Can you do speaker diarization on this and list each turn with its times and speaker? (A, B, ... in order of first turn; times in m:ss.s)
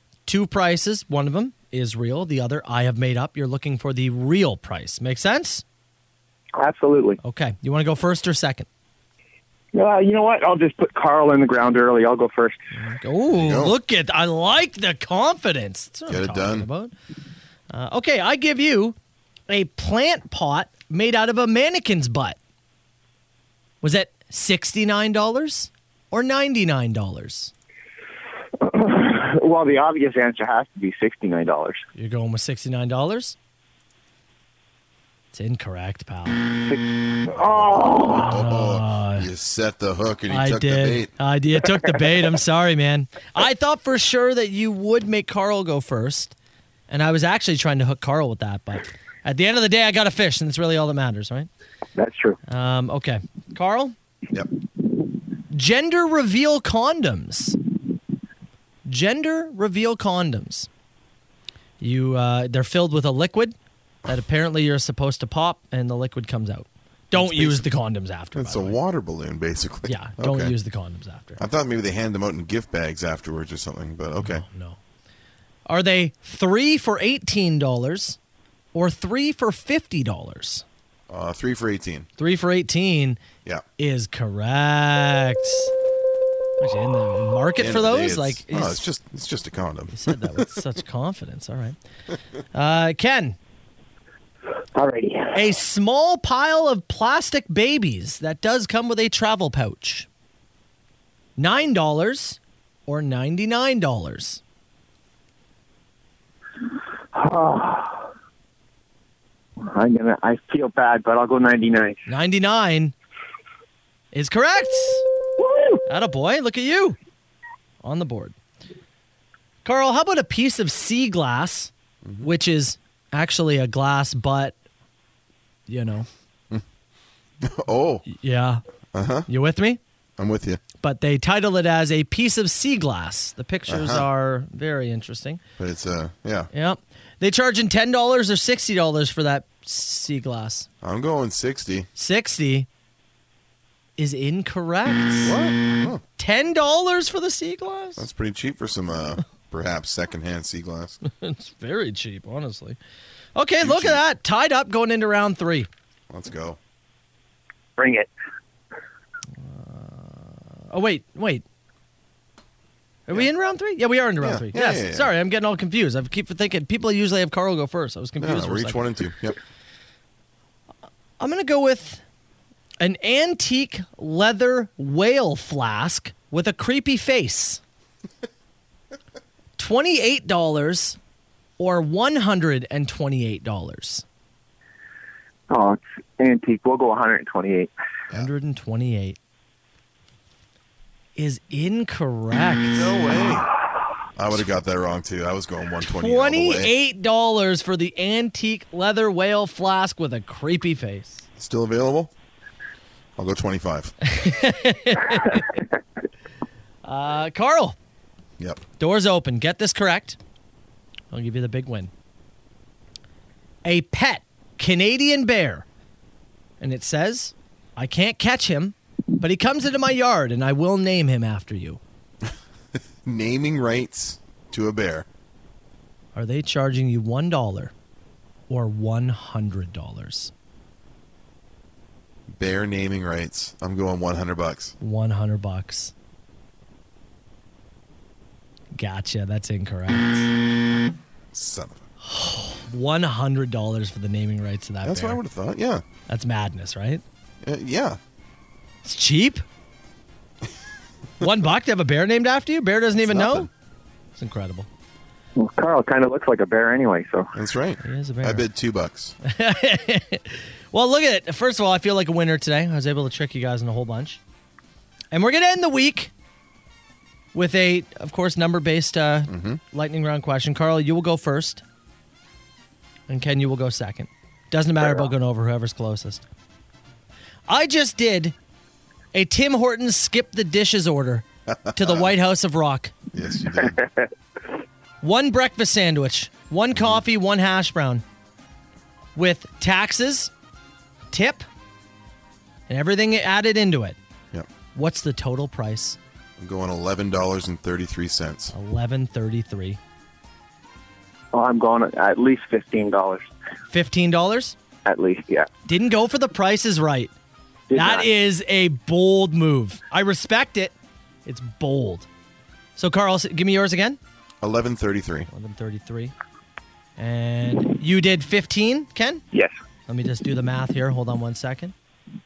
0:00.3-0:05.6 A
0:06.6-0:07.2 B
0:07.2-0:08.7 A
0:09.7-0:12.6 B
0:12.7-0:16.9 A
0:13.3-0:13.7 C
0:16.1-0:16.7 C
0:17.7-0:19.0 A
0:19.5-0:22.4 A
0:23.8-0:27.5 A
0:28.6-0:31.8 B
0:32.0-0:33.4 A
0:35.3-0:36.4 A
0:36.6-0:38.3 B
0:38.1-0:39.3 A
0:38.2-0:41.1 C
0:40.3-0:46.3 A
0:46.9-0:51.5 A
0:52.0-0:52.4 B
0:52.5-0:54.0 A
0:55.5-0:57.6 A
0:58.8-1:00.7 A
1:01.8-1:03.6 A
1:04.0-1:08.8 A
1:07.1-1:07.7 C
1:08.3-1:10.6 C
1:09.9-1:11.4 A
1:11.4-1:14.4 C
1:14.2-1:14.8 A
1:15.7-1:18.2 A
1:18.7-1:20.6 A
1:21.1-1:22.1 C
1:22.2-1:23.2 A
1:23.8-1:25.7 A
1:26.6-1:28.8 A
1:27.6-1:30.4 C
1:29.9-1:31.8 A
1:32.5-1:33.4 A
1:34.7-1:35.4 B
1:35.3-1:40.1 A
1:41.4-1:44.4 A
1:47.1-1:48.1 B
1:49.6-1:52.0 B
1:52.0-1:52.9 A
1:54.1-1:55.0 A
1:55.4-1:55.7 B
1:55.9-1:57.0 A
1:57.8-1:58.3 A
1:59.6-2:04.6 A
2:05.7-2:06.1 A
2:07.4-2:08.0 C
2:08.0-2:08.6 A
2:08.9-2:09.3 C
2:09.3-2:09.8 A
2:10.2-2:10.6 C
2:10.8-2:15.4 A
2:13.7-2:14.1 C
2:15.6-2:16.5 C
2:16.5-2:20.7 A
2:20.8-2:21.9 C
2:22.0-2:22.7 A
2:24.0-2:25.4 A
2:25.2-2:26.0 C
2:26.2-2:28.0 A
2:28.0-2:31.0 C
2:31.0-2:32.8 A
2:33.4-2:35.7 A
2:33.6-2:34.0 C
2:36.1-2:36.6 C
2:37.8-2:38.1 B
2:39.4-2:41.4 A
2:43.1-2:48.8 A
2:44.2-2:45.1 C
2:48.2-2:49.4 C
2:51.2-2:52.0 A
2:52.8-2:57.6 A
2:59.6-3:01.0 A
3:01.6-3:04.0 A
3:05.5-3:07.7 B
3:08.1-3:09.2 A
3:11.2-3:13.0 A
3:12.7-3:13.5 C
3:14.2-3:16.7 C
3:15.9-3:21.2 A
3:21.4-3:22.1 C
3:23.2-3:23.9 C
3:24.0-3:25.5 A
3:26.8-3:27.8 A
3:28.8-3:30.2 A
3:31.1-3:31.9 A
3:33.6-3:35.6 A
3:36.6-3:41.8 A
3:43.0-3:45.1 C
3:46.1-3:47.7 A
3:48.5-3:50.3 A
3:52.3-3:54.7 C
3:54.8-3:55.9 A
3:58.7-4:00.4 A
4:01.3-4:01.8 C
4:02.0-4:05.2 A
4:04.8-4:05.8 C
4:06.1-4:07.0 A
4:07.4-4:08.0 C
4:08.8-4:09.4 A
4:11.2-4:13.5 A
4:13.0-4:13.5 C
4:14.2-4:14.7 A
4:15.4-4:17.3 B
4:17.3-4:19.2 C
4:17.8-4:18.5 A
4:19.2-4:24.2 A
4:25.1-4:26.1 A
4:27.3-4:31.6 A
4:29.3-4:29.6 C
4:33.1-4:36.2 A
4:37.5-4:38.4 A
4:39.1-4:42.9 A
4:41.5-4:42.1 C
4:43.1-4:43.8 C
4:45.0-4:48.0 A
4:49.2-4:50.3 A
4:51.1-4:51.4 A
4:52.7-4:54.0 A
4:54.7-4:56.0 A
4:56.4-4:58.5 C
4:58.5-4:59.8 A
5:01.3-5:03.3 B
5:03.7-5:04.6 A
5:04.8-5:05.5 B
5:05.7-5:07.1 A
5:07.7-5:08.1 B
5:07.7-5:10.7 A
5:11.3-5:12.1 A
5:12.8-5:14.0 A
5:14.4-5:15.3 C
5:15.3-5:16.1 A
5:17.0-5:19.2 A
5:19.9-5:21.7 A